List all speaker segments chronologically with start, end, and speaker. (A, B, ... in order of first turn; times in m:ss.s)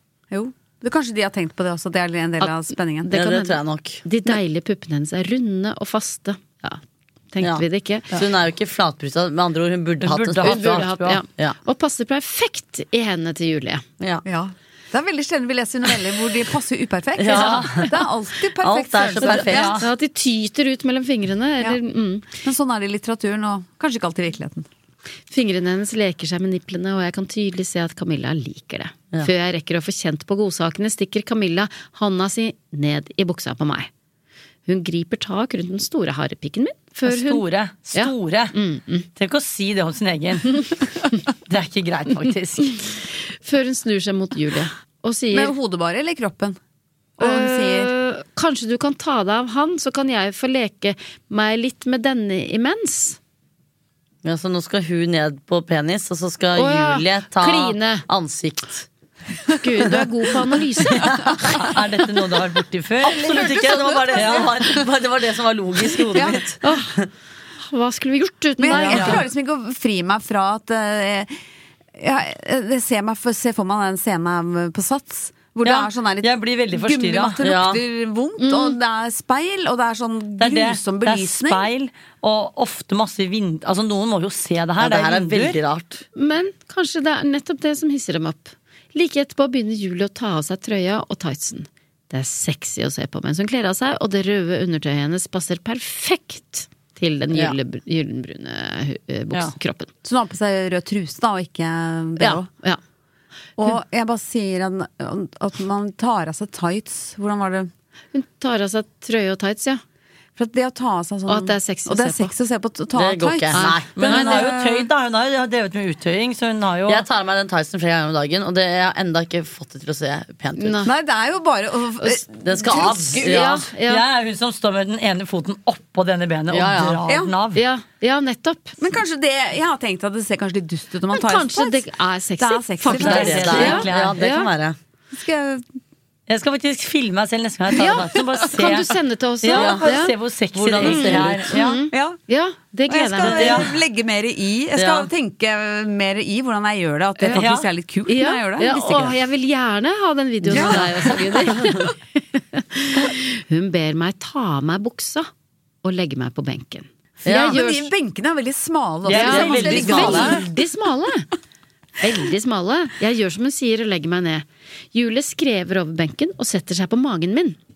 0:00.3-0:03.1 A
0:03.0-0:06.8 B
0:03.1-0:04.0 C
0:07.3-0:08.1 B
0:07.4-0:11.6 C
0:10.0-0:11.2 D
0:10.4-0:13.8 B
0:14.2-0:19.8 A
0:17.2-0:17.9 C
0:17.3-0:17.7 D
0:18.6-0:19.8 C
0:19.2-0:22.3 B
0:19.3-0:19.8 D
0:22.3-0:24.7 A
0:25.3-0:33.9 B
0:34.7-0:39.1 B
0:37.0-0:38.6 D
0:39.2-0:40.9 D
0:41.5-0:42.8 D
0:42.8-0:45.5 B
0:45.3-0:46.6 A
0:47.2-0:47.9 A
0:47.2-0:53.2 B
0:54.2-0:58.9 C
0:56.6-0:58.0 B
0:59.6-1:01.1 B
1:01.0-1:01.5 C
1:01.3-1:01.6 A
1:01.5-1:04.6 D
1:03.0-1:07.1 C
1:03.0-1:04.8 A
1:06.1-1:06.4 A
1:06.6-1:07.0 B
1:07.6-1:09.2 B
1:08.6-1:11.3 A
1:08.7-1:09.2 D
1:12.0-1:21.7 A
1:15.6-1:17.4 D
1:17.4-1:17.8 C
1:18.4-1:18.8 B
1:20.4-1:25.6 D
1:24.8-1:26.0 C
1:26.2-1:39.9 B
1:40.0-1:42.5 A
1:42.2-1:42.8 B
1:43.6-1:47.7 A
1:48.1-1:49.8 B
1:50.4-1:54.9 A
1:51.3-1:52.3 B
1:53.0-1:54.2 C
1:53.5-1:54.4 B
1:54.0-1:57.0 D
1:56.9-2:00.9 C
2:00.6-2:00.9 B
2:00.8-2:03.4 A
2:02.4-2:03.7 C
2:03.1-2:04.0 B
2:03.9-2:07.6 D
2:06.5-2:07.0 C
2:07.1-2:07.3 A
2:07.5-2:08.8 B
2:08.8-2:11.9 A
2:11.1-2:14.5 B
2:12.4-2:13.8 A
2:12.9-2:14.2 D
2:13.0-2:14.8 C
2:15.1-2:15.7 A
2:16.3-2:21.8 D
2:17.7-2:20.1 B
2:19.5-2:21.5 C
2:20.8-2:23.6 B
2:21.5-2:22.2 A
2:22.9-2:29.2 A
2:23.2-2:23.7 D
2:24.8-2:25.1 C
2:27.2-2:27.4 B
2:27.3-2:27.7 D
2:28.1-2:35.3 B
2:30.5-2:31.8 A
2:35.8-2:37.9 B
2:37.2-2:37.6 C
2:37.3-2:40.5 A
2:39.0-2:40.5 D
2:39.1-2:41.3 B
2:42.0-2:47.6 B